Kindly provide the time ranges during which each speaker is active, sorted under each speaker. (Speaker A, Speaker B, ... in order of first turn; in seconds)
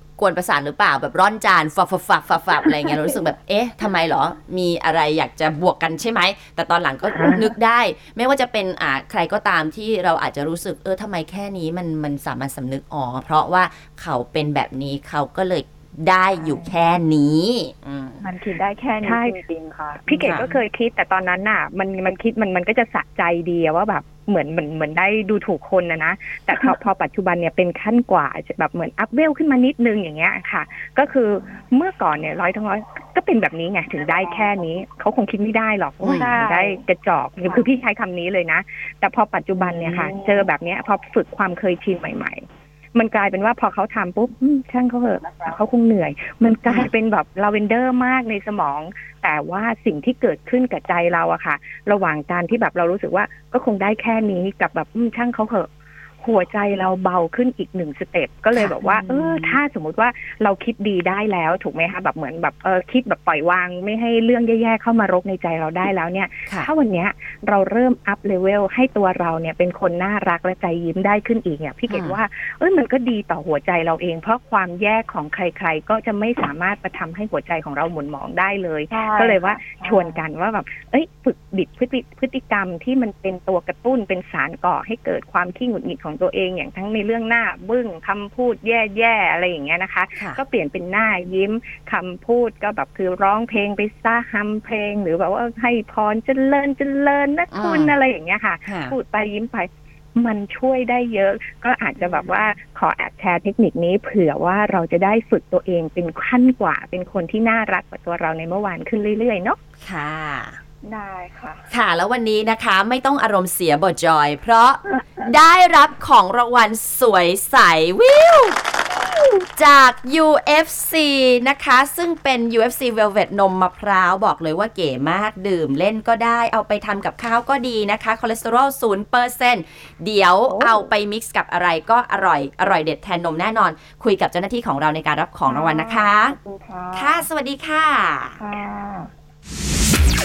Speaker A: 0.2-18.2, 58.5-59.6, 71.9-72.2, 90.2-90.4, 97.5-97.9, 98.7-99.0, 109.8-110.6, 111.7-118.6, 119.5-136.3, 136.9-138.4
Speaker B: 16.4-16.7, 18.2-20.6, 36.1-36.8, 39.6-40.3, 78.9-80.2, 102.0-102.3, 110.8-111.6, 130.5-130.8, 135.5-137.3, 138.3-139.1
Speaker C: 19.0-19.4, 20.1-42.4, 42.9-55.7, 56.2-109.6